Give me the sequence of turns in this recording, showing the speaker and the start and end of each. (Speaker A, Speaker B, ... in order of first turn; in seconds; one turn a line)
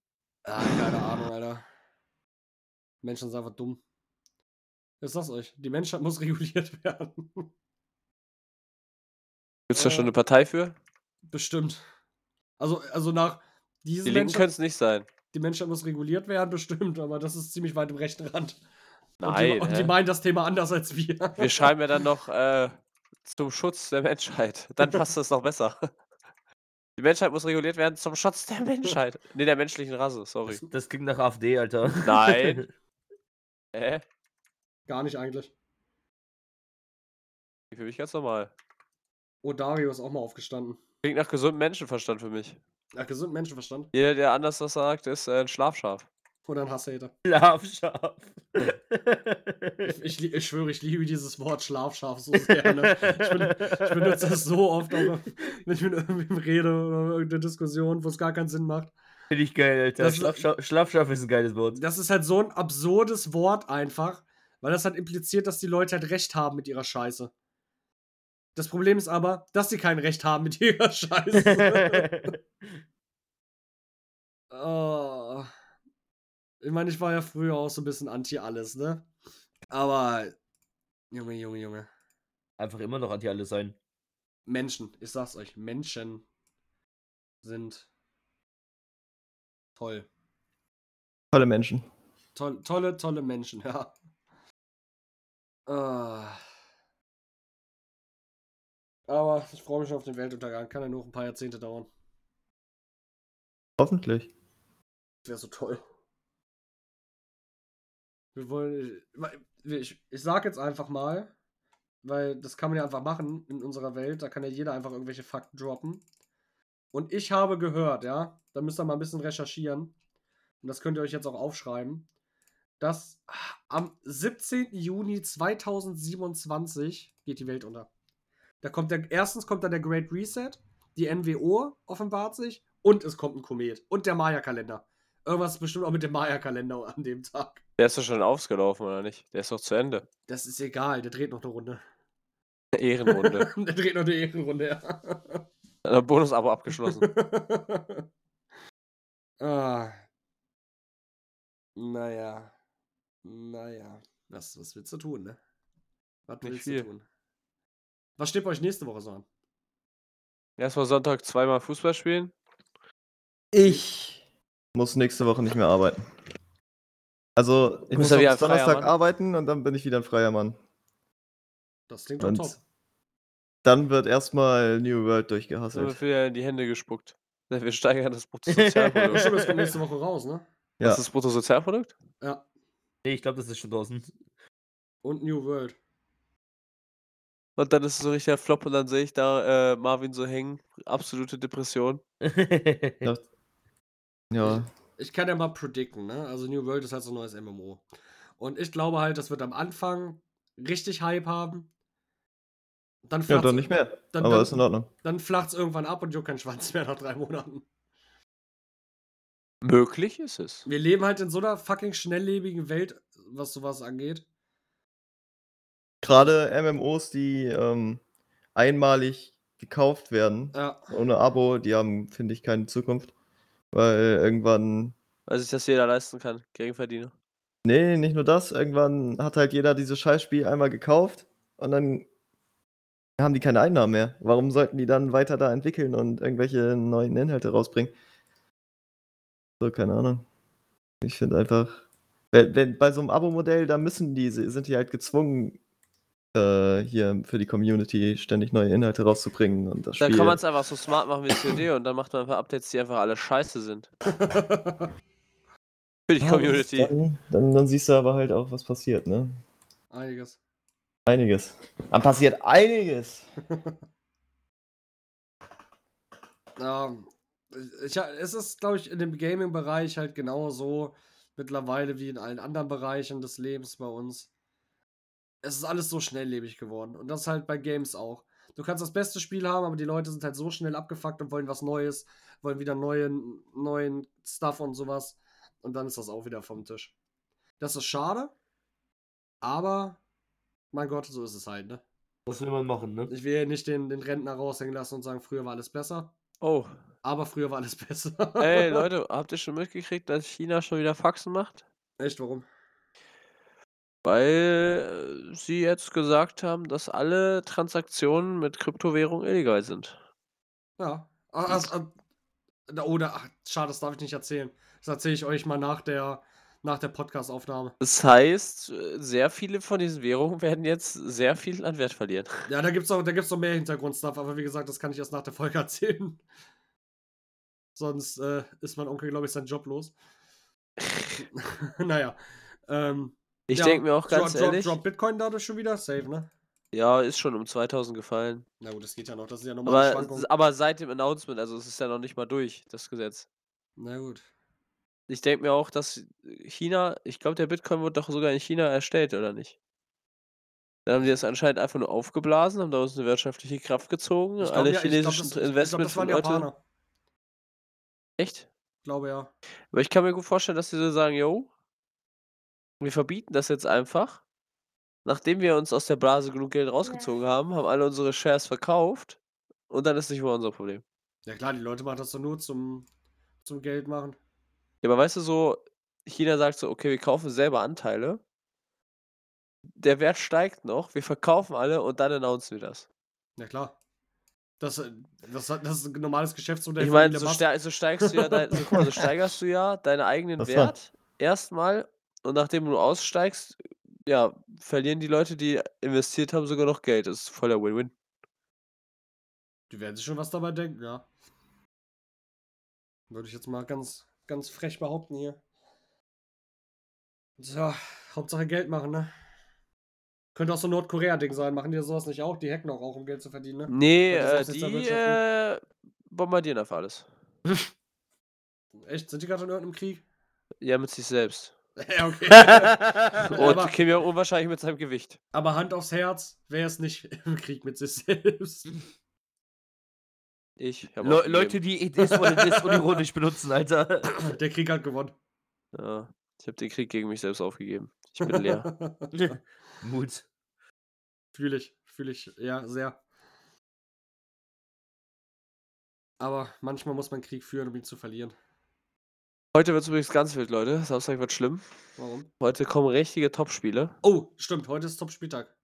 Speaker A: 0.5-1.6
Speaker A: 3.0-3.8
Speaker A: 5.0-7.5
Speaker B: 9.7-10.7
Speaker A: 9.7-10.1
Speaker A: 11.3-11.8
Speaker A: 12.6-14.5
Speaker B: 14.1-15.1
Speaker A: 15.3-18.6
Speaker B: 19.2-19.9
Speaker A: 19.2-21.7
Speaker B: 21.4-22.7
Speaker B: 23.3-25.9
Speaker B: 27.0-30.6
Speaker C: 30.6-32.6
Speaker B: 32.0-32.7
Speaker B: 33.7-34.0
Speaker A: 34.9-35.5
Speaker B: 37.7-38.5
Speaker A: 39.4-40.8
Speaker B: 41.0-42.6
Speaker A: 43.0-43.9
Speaker B: 43.9-46.0
Speaker A: 46.5-47.1
Speaker C: 47.2-49.9
Speaker A: 49.8-58.9
Speaker C: 52.5-54.3
Speaker C: 59.3-61.8
Speaker A: 60.0-60.4
Speaker A: 61.7-67.3
Speaker A: 68.5-72.3
Speaker C: 71.4-72.4
Speaker A: 74.5-75.5
Speaker A: 76.6-79.1
Speaker A: 79.7-80.3
Speaker A: 81.1-81.9
Speaker C: 82.6-83.8
Speaker A: 84.5-86.2
Speaker A: 87.4-87.9
Speaker A: 89.8-90.1
Speaker D: 91.3-91.8
Speaker A: 92.3-93.9
Speaker A: 95.7-96.4
Speaker A: 99.1-101.9
Speaker D: 103.8-104.3
Speaker A: 105.2-105.8
Speaker A: 108.3-111.3
Speaker A: 112.0-116.0
Speaker A: 116.9-119.9
Speaker A: 120.6-122.1
Speaker A: 122.8-127.9
Speaker A: 128.6-137.6
Speaker B: 137.8-140.1
Speaker A: 140.3-141.8
Speaker B: 142.7-143.5
Speaker A: 143.1-145.4
Speaker B: 145.8-147.1
Speaker A: 146.8-148.1
Speaker A: 149.4-150.0
Speaker A: 151.8-152.5
Speaker A: 153.2-155.4
Speaker A: 156.3-157.0
Speaker B: 156.4-156.9
Speaker A: 158.2-159.2
Speaker B: 160.6-162.3
Speaker D: 163.5-164.2
Speaker D: 164.7-166.0
Speaker D: 167.3-170.6
Speaker B: 167.9-168.9
Speaker A: 171.9-172.6
Speaker D: 172.2-172.6
Speaker D: 173.6-176.0
Speaker B: 175.7-179.3
Speaker C: 178.5-179.7
Speaker A: 179.1-180.4
Speaker B: 180.8-181.9
Speaker C: 183.0-184.1
Speaker A: 185.0-185.8
Speaker B: 187.6-192.0
Speaker C: 192.2-193.1
Speaker D: 194.3-194.7
Speaker A: 194.4-197.8
Speaker A: 198.4-201.7
Speaker A: 203.1-207.6
Speaker D: 203.3-204.9
Speaker B: 209.6-210.6
Speaker A: 210.7-214.2
Speaker D: 216.0-218.0
Speaker D: 218.5-223.1
Speaker A: 220.5-220.9
Speaker D: 223.7-224.9
Speaker B: 225.3-227.1
Speaker D: 227.6-232.1
Speaker D: 233.2-237.9
Speaker D: 239.6-240.2
Speaker D: 241.0-245.6
Speaker D: 246.3-250.4
Speaker B: 250.0-253.9
Speaker A: 254.1-254.9
Speaker B: 256.1-256.9
Speaker D: 256.2-259.3
Speaker A: 259.9-260.4
Speaker D: 261.1-263.2
Speaker A: 263.5-263.8
Speaker A: 266.6-274.3
Speaker A: 275.4-286.9
Speaker A: 287.6-288.3
Speaker A: 289.4-290.0
Speaker A: 290.7-291.8
Speaker C: 292.2-293.1
Speaker A: 293.1-296.1
Speaker B: 296.4-296.7
Speaker A: 297.0-298.9
Speaker B: 298.4-301.6
Speaker A: 302.0-302.4
Speaker B: 304.0-309.9
Speaker A: 310.8-311.9
Speaker A: 312.7-317.7
Speaker B: 317.8-322.3
Speaker A: 322.5-326.2
Speaker A: 327.8-329.9
Speaker B: 330.8-331.1
Speaker A: 331.3-336.3
Speaker B: 333.5-334.8
Speaker B: 336.7-338.4
Speaker A: 338.6-340.3
Speaker B: 339.6-343.3
Speaker A: 343.8-344.3
Speaker B: 345.1-349.5
Speaker B: 350.9-356.5
Speaker A: 354.4-356.6
Speaker B: 358.2-358.5
Speaker A: 358.8-359.3
Speaker B: 359.7-361.5
Speaker B: 362.8-364.2
Speaker B: 365.0-369.2
Speaker B: 369.7-370.8
Speaker A: 371.2-372.9
Speaker A: 373.4-374.2
Speaker B: 374.8-378.2
Speaker B: 379.8-382.9
Speaker A: 383.4-383.8
Speaker A: 384.6-387.5
Speaker B: 386.8-397.9
Speaker A: 388.0-388.7
Speaker D: 390.4-390.7
Speaker A: 399.7-401.1
Speaker A: 403.1-405.4
Speaker A: 407.4-409.1
Speaker A: 410.3-415.2
Speaker B: 413.7-417.1
Speaker A: 418.8-420.0
Speaker B: 420.6-421.5
Speaker A: 421.8-423.7
Speaker C: 422.3-423.5
Speaker B: 423.3-425.2
Speaker A: 425.3-428.7
Speaker B: 430.6-431.6
Speaker C: 431.0-434.1
Speaker A: 432.0-433.0
Speaker A: 434.1-435.1
Speaker B: 435.7-438.7
Speaker A: 438.2-439.3
Speaker C: 439.1-440.2
Speaker A: 441.3-443.0
Speaker A: 446.2-448.3
Speaker B: 449.5-451.6
Speaker A: 452.0-452.3
Speaker B: 452.4-453.9
Speaker A: 454.0-455.5